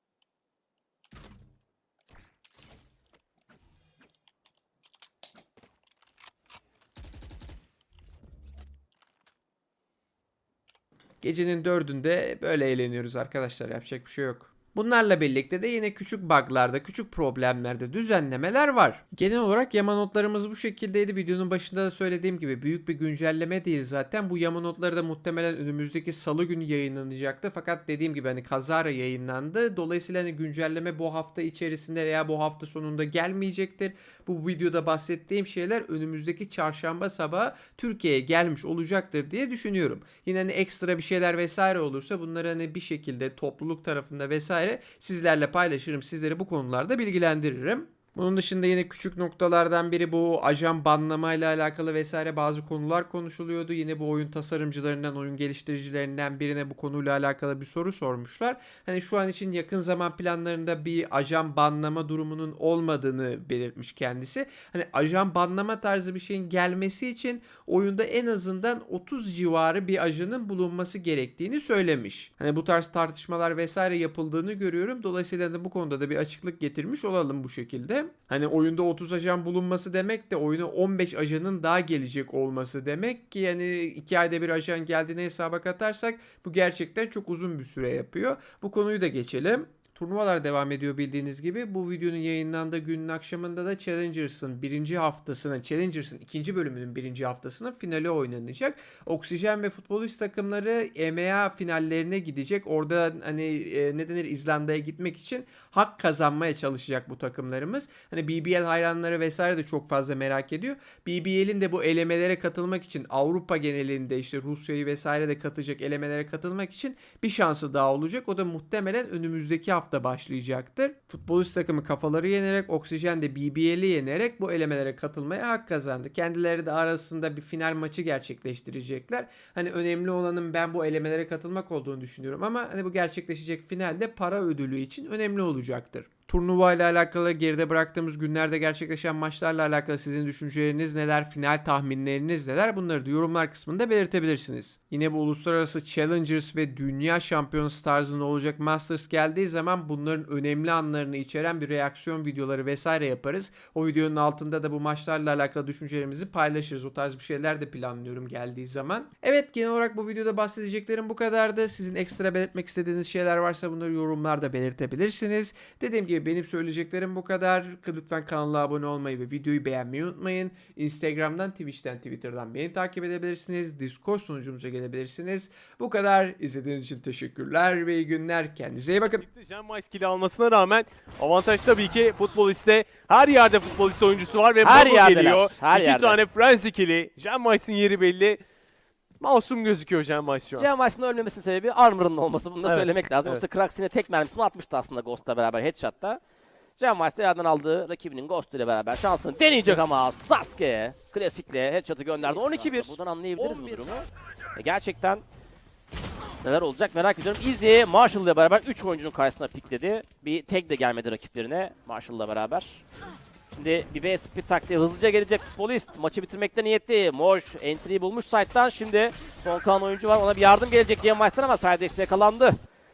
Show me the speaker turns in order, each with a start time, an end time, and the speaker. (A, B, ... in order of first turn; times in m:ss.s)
0:11.2-2:59.2 A
2:59.2-3:08.4 B
3:04.6-3:06.2 C
3:09.2-3:10.7 B
3:10.6-3:16.2 C
3:12.6-3:13.4 B
3:16.8-3:24.0 C
3:22.2-3:23.8 B
3:24.6-3:25.2 C
3:26.4-3:32.8 C
3:33.5-3:42.5 C